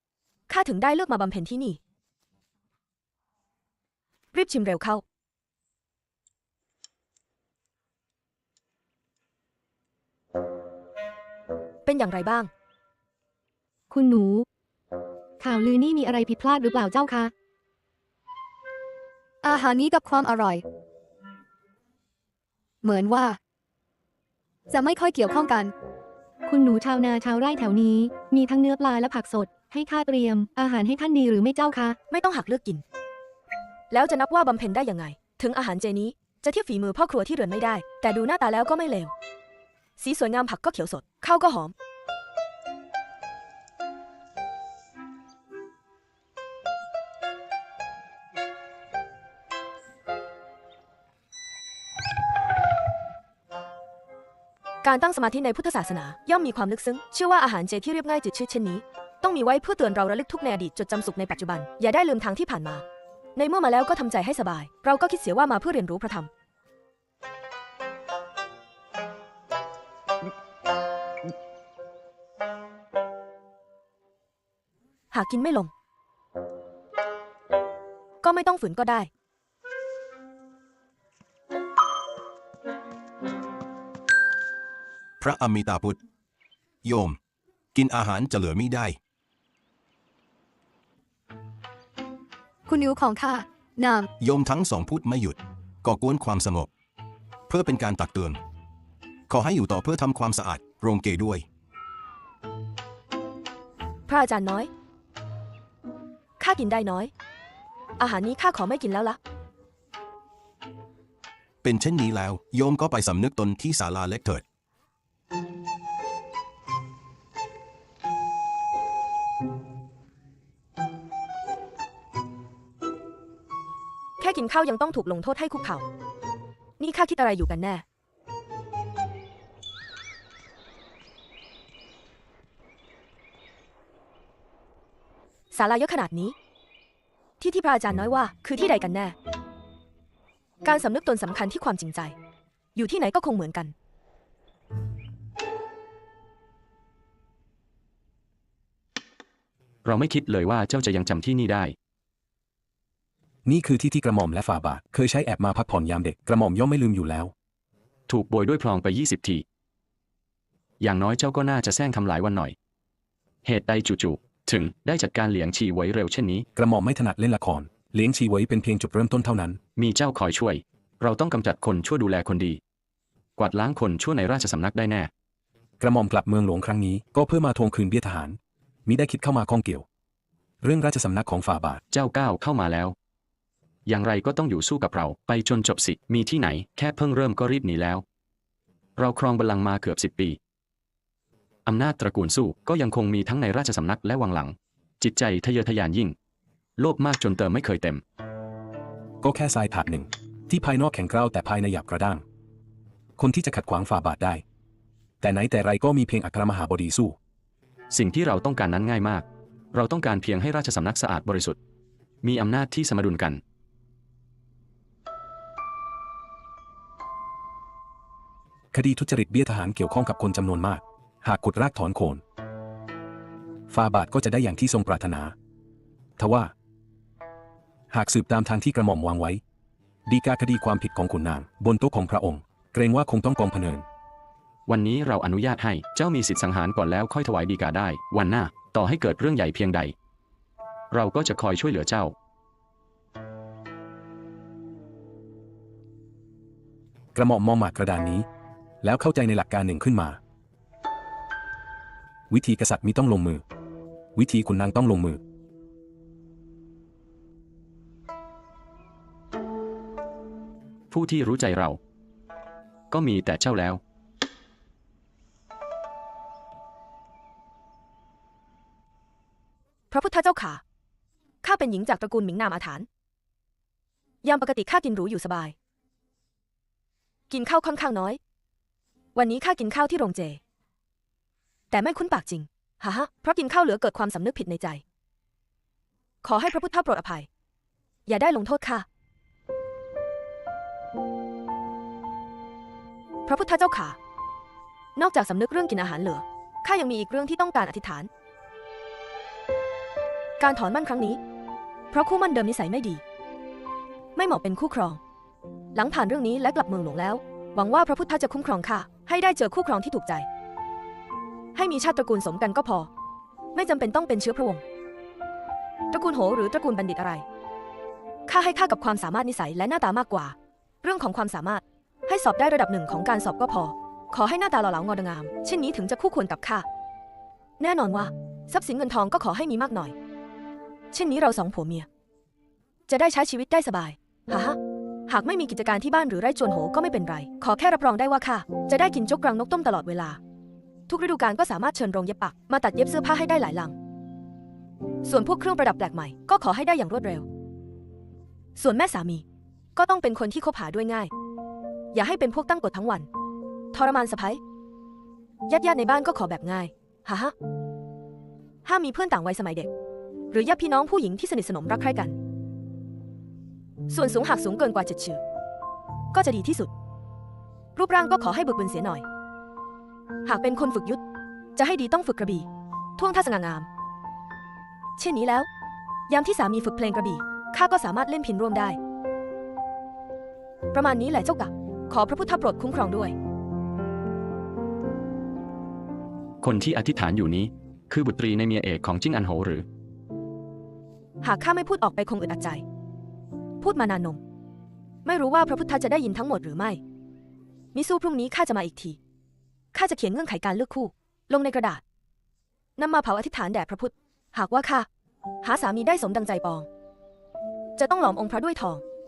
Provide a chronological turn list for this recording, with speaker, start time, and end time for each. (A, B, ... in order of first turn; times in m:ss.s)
0:00.5-0:01.8 A
0:04.3-0:05.0 A
0:11.8-0:12.5 A
0:13.9-0:14.4 B
0:15.4-0:17.3 B
0:19.4-0:20.6 C
0:22.8-0:23.2 C
0:24.7-0:25.6 C
0:26.5-0:32.0 B
0:32.1-0:32.8 A
0:33.9-0:39.1 A
0:40.0-0:41.7 A
0:54.8-1:02.8 A
1:03.3-1:06.3 A
1:15.1-1:15.7 A
1:18.2-1:19.1 A
1:25.2-1:26.0 D
1:26.8-1:27.2 D
1:27.7-1:29.0 D
1:32.7-1:34.0 C
1:34.2-1:36.7 D
1:37.5-1:38.4 D
1:39.3-1:41.4 D
1:44.1-1:44.7 A
1:46.4-1:47.1 A
1:48.0-1:49.2 A
1:51.6-1:54.4 D
2:04.2-2:05.8 A
2:06.8-2:07.8 A
2:15.5-2:16.3 A
2:17.4-2:19.2 A
2:20.6-2:22.2 A
2:22.7-2:23.7 A
2:29.8-2:31.7 E
2:33.4-2:37.3 F
2:38.1-2:39.4 E
2:40.8-2:42.5 E
2:43.4-2:46.4 E
2:46.6-2:49.6 F
2:49.8-2:52.6 E
2:53.4-2:55.1 E
2:55.8-2:59.8 F
3:00.6-3:01.8 F
3:01.9-3:02.9 E
3:03.9-3:08.0 E
3:09.0-3:10.4 E
3:11.6-3:16.1 E
3:16.8-3:18.0 E
3:19.2-3:22.2 F
3:23.2-3:24.4 F
3:25.2-3:27.2 F
3:27.9-3:31.6 E
3:32.2-3:33.4 E
3:38.7-3:42.2 F
3:43.7-3:45.3 F
3:46.2-3:46.5 F
3:47.9-3:49.4 F
3:50.1-3:53.8 F
3:54.7-3:59.9 E
4:00.9-4:02.1 E
4:07.1-4:08.2 F
4:08.8-4:10.2 F
4:12.3-4:13.4 F
4:14.1-4:15.2 F
4:20.9-4:21.8 E
4:22.9-4:23.8 E
4:29.9-4:30.6 A
4:31.4-4:32.9 A
4:34.2-4:35.6 A
4:37.3-4:38.2 A
4:39.1-4:40.4 A
4:41.7-4:44.8 A
4:46.2-4:47.3 A
4:48.0-4:48.8 A
4:53.2-4:54.0 A
4:55.0-4:58.1 A
5:00.4-5:01.2 A
5:01.9-5:03.0 A
5:04.1-5:05.0 A
5:05.7-5:10.3 A
5:11.5-5:12.9 A
5:13.5-5:14.6 A
5:15.9-5:17.2 A
5:18.3-5:26.6 A
5:27.6-5:29.9 A
5:30.9-5:31.9 A
5:32.9-5:40.2 A
5:40.9-5:43.7 A
5:45.0-5:47.2 A
5:48.6-5:49.2 A
5:49.8-5:51.1 A
5:51.9-5:53.1 A
5:53.7-5:54.4 A
5:55.5-5:57.3 A
5:58.6-5:59.7 A
6:00.3-6:02.2 A
6:03.9-6:05.2 A
6:06.1-6:06.7 A
6:07.7-6:09.0 A
6:10.2-6:11.0 A
6:11.5-6:13.7 A
6:15.0-6:15.5 A
6:16.1-6:18.8 A
6:20.7-6:23.1 A
6:26.4-6:29.6 E
6:31.2-6:32.6 A
6:33.6-6:34.2 A
6:35.0-6:36.8 A
6:37.7-6:39.0 A
6:39.7-6:41.8 A
6:42.8-6:44.9 A
6:45.4-6:46.7 A
6:47.8-6:48.8 A